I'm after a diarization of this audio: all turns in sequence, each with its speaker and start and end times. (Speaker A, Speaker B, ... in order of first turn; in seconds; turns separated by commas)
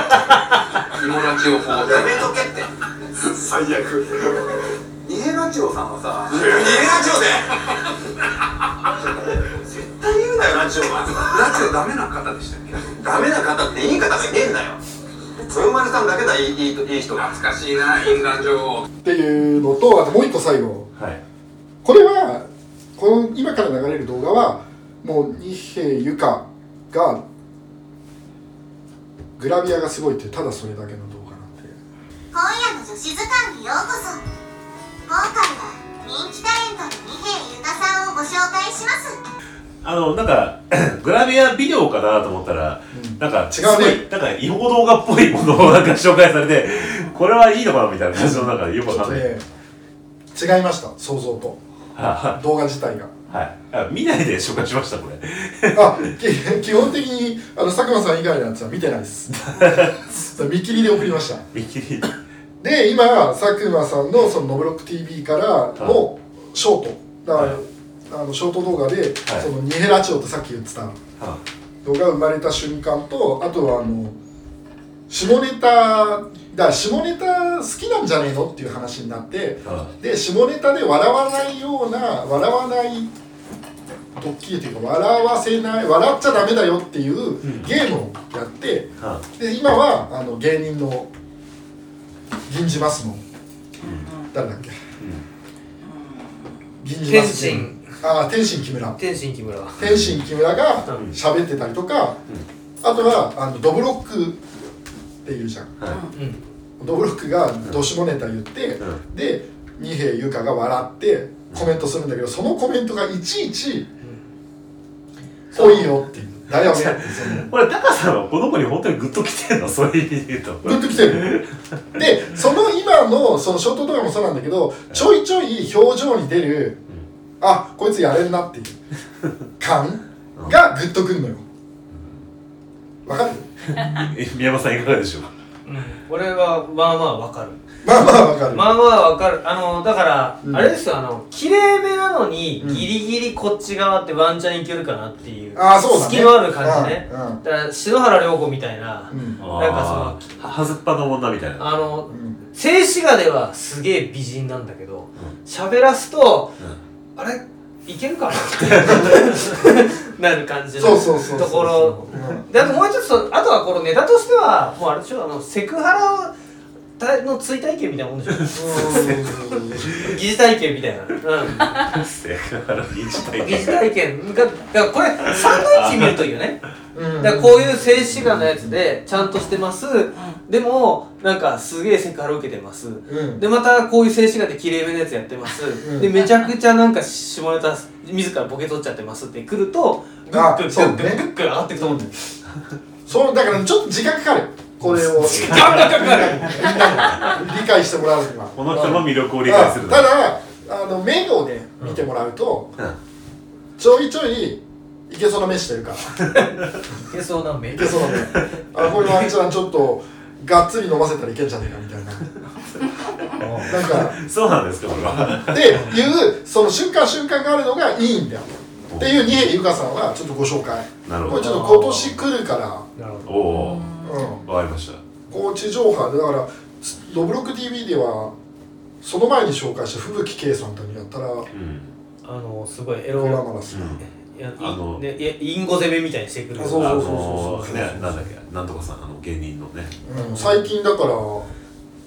Speaker A: 0.8-2.4, Speaker B: 1.6-2.7, Speaker B: 3.3-4.3, Speaker A: 3.4-4.0, Speaker A: 5.0-7.1, Speaker B: 5.1-7.5, Speaker B: 9.8-11.7, Speaker A: 10.6-13.3, Speaker B: 12.9-14.8, Speaker B: 15.5-17.4, Speaker A: 17.1-18.9, Speaker C: 19.0-20.9, Speaker C: 21.8-27.2, Speaker C: 29.4-31.8, Speaker D: 32.3-34.2, Speaker D: 35.1-39.2, Speaker E: 39.8-49.4, Speaker C: 42.9-44.0, Speaker C: 48.2-49.4, Speaker C: 50.3-51.6, Speaker E: 51.9-52.4, Speaker C: 52.3-53.1, Speaker E: 53.3-56.1, Speaker C: 55.7-61.4, Speaker E: 59.3-60.0, Speaker E: 61.5-62.2, Speaker C: 62.6-71.0, Speaker C: 71.8-74.2, Speaker C: 75.1-83.1, Speaker E: 79.6-79.9, Speaker C: 84.1-91.1, Speaker E: 87.4-87.7, Speaker C: 92.5-93.2, Speaker E: 93.8-94.1, Speaker C: 94.3-94.8, Speaker E: 95.0-95.2, Speaker C: 96.8-99.0, Speaker F: 97.0-98.0, Speaker F: 99.0-99.8, Speaker C: 99.8-102.2, Speaker E: 99.8-100.2, Speaker C: 102.8-104.5, Speaker C: 105.2-105.7, Speaker E: 105.8-106.0, Speaker F: 106.1-106.4, Speaker C: 106.8-113.9, Speaker F: 115.5-115.9, Speaker C: 115.5-117.5, Speaker E: 116.6-121.5, Speaker C: 120.6-121.3, Speaker C: 121.9-126.8, Speaker C: 127.4-128.8, Speaker C: 129.6-131.4, Speaker E: 131.9-132.2, Speaker C: 133.0-133.5, Speaker E: 133.7-135.3, Speaker F: 135.7-137.6, Speaker C: 137.8-138.7, Speaker F: 138.5-150.5, Speaker C: 140.4-140.7, Speaker C: 142.6-142.9, Speaker C: 145.5-147.4, Speaker C: 149.1-149.4, Speaker E: 149.4-151.8, Speaker F: 151.6-156.5, Speaker C: 152.1-152.4, Speaker F: 157.2-166.3, Speaker E: 158.7-159.0, Speaker C: 160.8-162.4, Speaker F: 167.0-169.3, Speaker C: 168.5-169.8, Speaker E: 168.7-170.2, Speaker F: 170.0-171.7, Speaker E: 171.6-173.8, Speaker F: 173.4-176.6, Speaker E: 175.2-176.1, Speaker C: 176.9-178.8, Speaker F: 177.2-192.1, Speaker C: 183.1-183.4, Speaker C: 185.8-186.1, Speaker C: 190.3-191.2, Speaker C: 191.8-192.2, Speaker C: 193.1-202.7, Speaker E: 194.8-196.4, Speaker F: 195.4-197.3, Speaker E: 198.6-200.1, Speaker C: 203.8-206.2, Speaker F: 207.1-208.4, Speaker C: 207.7-212.3, Speaker F: 208.9-209.2, Speaker F: 213.4-213.7, Speaker C: 213.6-214.2, Speaker E: 213.7-215.8, Speaker C: 215.2-222.9, Speaker E: 218.9-219.3, Speaker E: 221.0-221.6, Speaker F: 221.3-222.1, Speaker F: 223.0-223.3, Speaker E: 223.2-225.0, Speaker C: 224.0-224.4, Speaker C: 225.3-228.3, Speaker C: 229.0-231.5, Speaker E: 231.5-231.9, Speaker F: 232.2-233.4, Speaker C: 233.1-234.0, Speaker E: 233.7-234.0, Speaker F: 234.1-237.8, Speaker E: 234.6-235.0, Speaker C: 236.6-238.2, Speaker E: 236.8-239.9, Speaker C: 240.0-241.5, Speaker F: 240.1-240.7